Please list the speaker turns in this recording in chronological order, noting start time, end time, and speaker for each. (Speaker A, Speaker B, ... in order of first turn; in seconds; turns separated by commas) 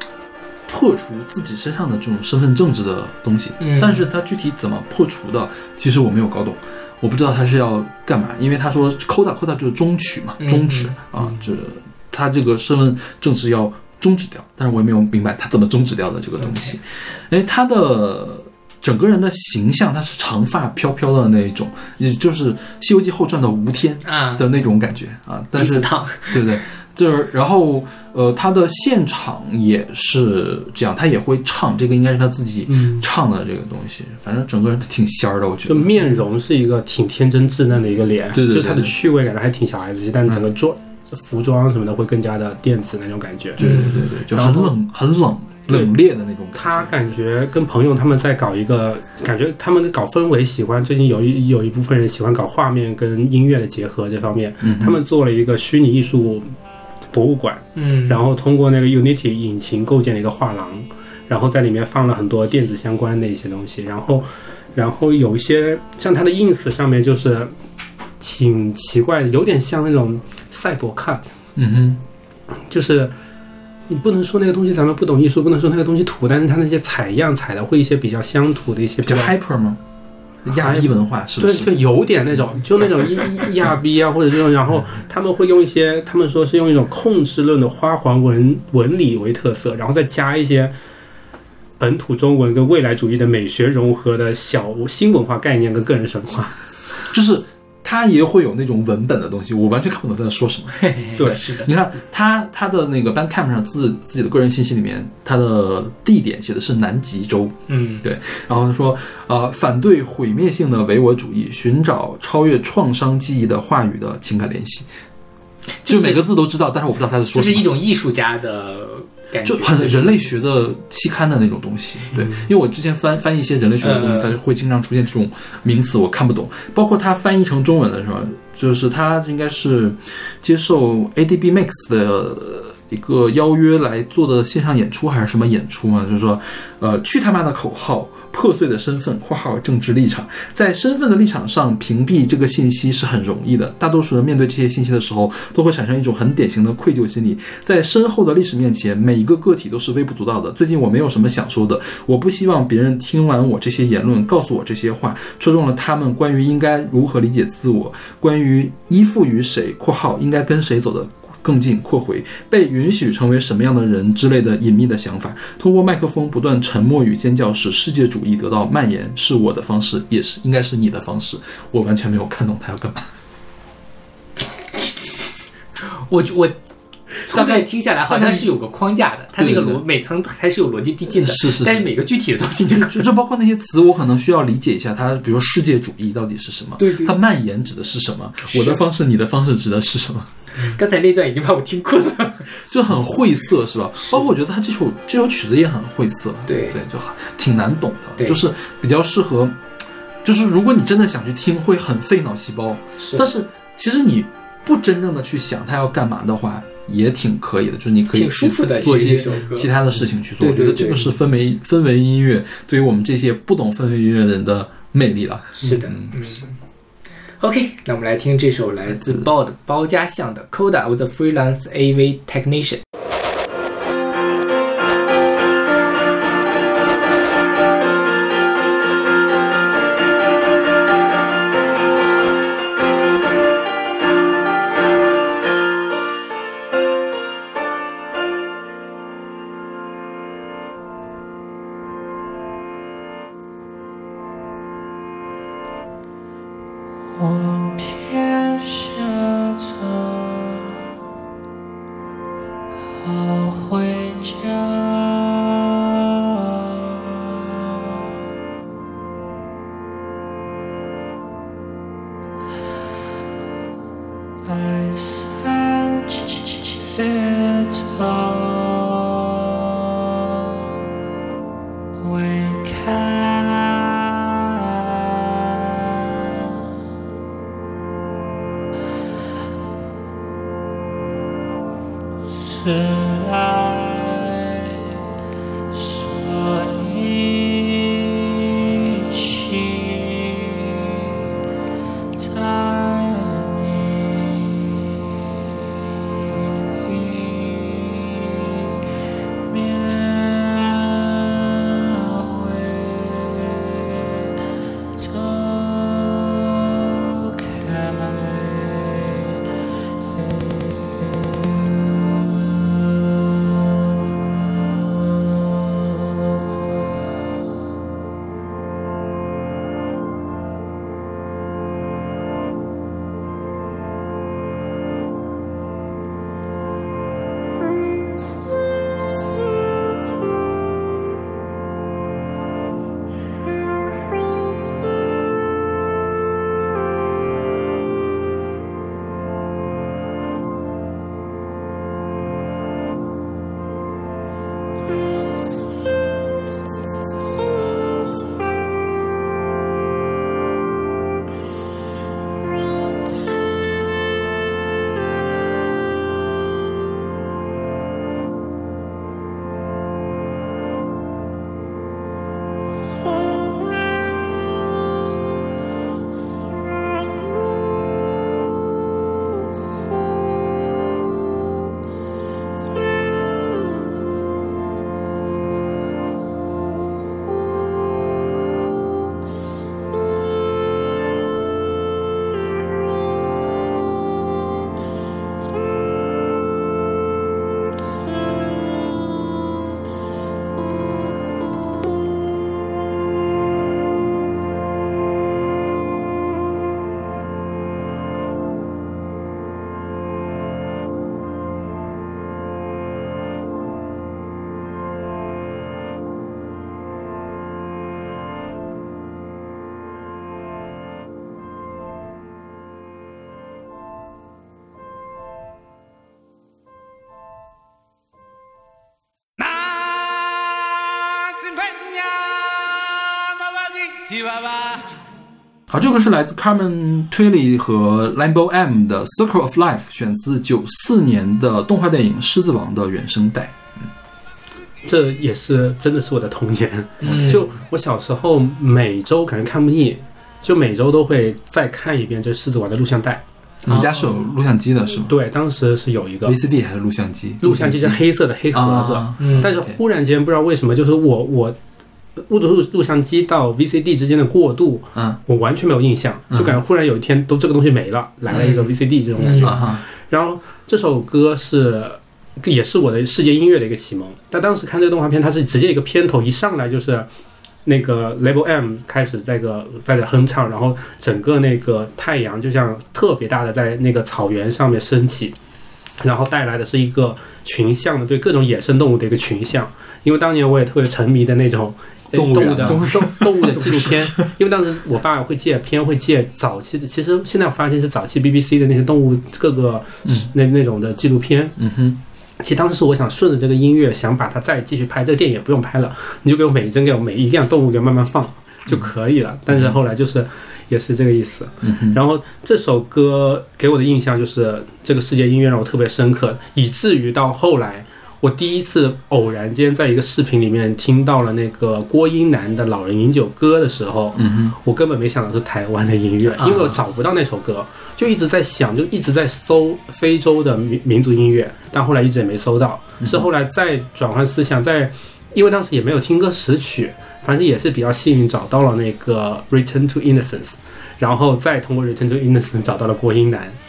Speaker A: 0.7-35.9, Speaker B: 3.6-4.1, Speaker B: 10.4-11.0, Speaker B: 16.4-16.7, Speaker B: 24.1-24.5, Speaker B: 25.6-26.6, Speaker C: 32.7-33.1, Speaker C: 35.7-43.8, Speaker A: 38.3-39.0, Speaker A: 43.6-47.1, Speaker B: 43.6-44.1, Speaker C: 44.3-44.7, Speaker C: 46.6-56.5, Speaker A: 54.6-55.0, Speaker C: 57.1-67.5, Speaker B: 57.8-58.2, Speaker C: 68.2-71.3, Speaker A: 71.6-72.0, Speaker C: 72.7-73.1, Speaker C: 73.9-79.3, Speaker A: 79.0-79.8, Speaker A: 80.5-81.7, Speaker C: 80.5-90.7, Speaker A: 82.4-82.6, Speaker C: 91.8-96.6, Speaker A: 97.1-114.9, Speaker B: 100.8-101.7, Speaker B: 107.7-108.0, Speaker B: 115.8-116.3, Speaker A: 115.9-117.7, Speaker B: 117.3-120.3, Speaker A: 119.4-173.1, Speaker B: 123.8-124.4, Speaker B: 176.0-176.6, Speaker B: 177.2-183.1, Speaker A: 177.3-178.5, Speaker A: 179.4-179.8, Speaker A: 181.1-181.9, Speaker A: 182.7-190.3, Speaker B: 186.8-187.2, Speaker B: 188.5-188.8, Speaker B: 190.6-192.5, Speaker A: 192.7-199.6, Speaker B: 196.5-196.8, Speaker A: 200.2-216.1, Speaker B: 208.1-209.7, Speaker B: 210.4-211.2, Speaker B: 215.6-216.5, Speaker C: 215.6-216.3, Speaker B: 217.4-222.8, Speaker A: 218.9-219.3, Speaker D: 247.4-249.1, Speaker D: 253.3-254.6, Speaker D: 264.7-265.3, Speaker D: 266.9-268.5, Speaker D: 272.1-273.7, Speaker D: 282.7-283.7, Speaker D: 285.8-287.3, Speaker D: 292.3-293.4, Speaker A: 425.7-433.9, Speaker C: 434.8-443.2, Speaker B: 437.0-437.4, Speaker A: 437.0-437.5, Speaker A: 443.6-445.1, Speaker B: 443.7-444.2, Speaker C: 445.1-446.4, Speaker A: 446.2-449.8, Speaker C: 447.4-451.6, Speaker B: 449.2-449.5, Speaker C: 452.2-467.1, Speaker A: 454.9-455.2, Speaker A: 456.3-456.6, Speaker A: 458.3-458.5, Speaker B: 458.3-459.6, Speaker A: 459.4-459.8, Speaker C: 467.6-475.4, Speaker C: 476.0-491.6, Speaker A: 482.1-484.3, Speaker B: 482.7-483.1, Speaker A: 490.1-490.3, Speaker A: 491.6-492.0, Speaker C: 492.4-533.6, Speaker A: 499.5-499.8, Speaker A: 501.6-502.0, Speaker A: 514.2-514.6, Speaker B: 516.3-516.7, Speaker A: 523.0-523.3